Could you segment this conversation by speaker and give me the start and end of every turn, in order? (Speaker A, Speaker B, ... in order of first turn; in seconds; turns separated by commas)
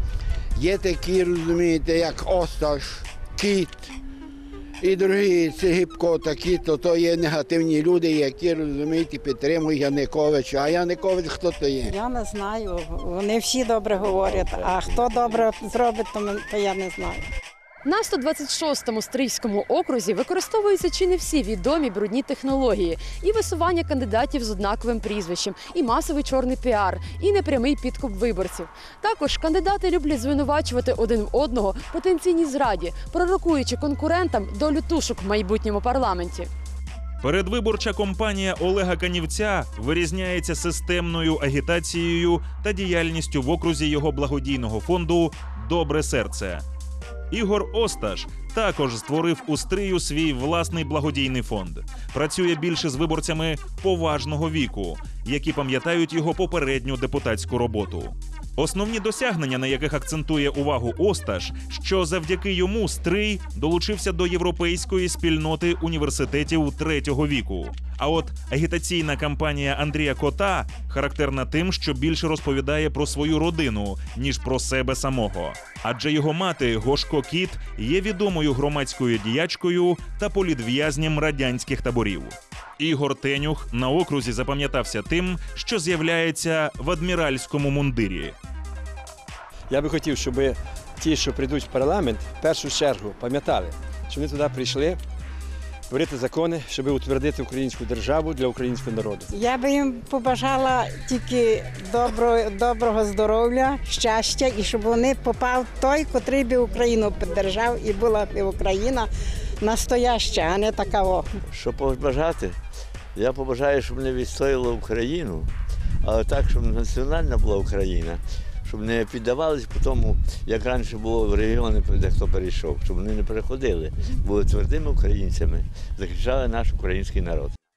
Speaker A: 0.6-3.9, Speaker A: 4.8-11.9, Speaker B: 11.9-17.2, Speaker C: 13.9-15.5, Speaker D: 17.8-36.5, Speaker E: 37.2-46.6, Speaker E: 47.3-88.3, Speaker F: 89.7-95.0, Speaker F: 95.9-99.3, Speaker B: 99.3-111.3, Speaker C: 111.5-112.6, Speaker C: 113.1-127.5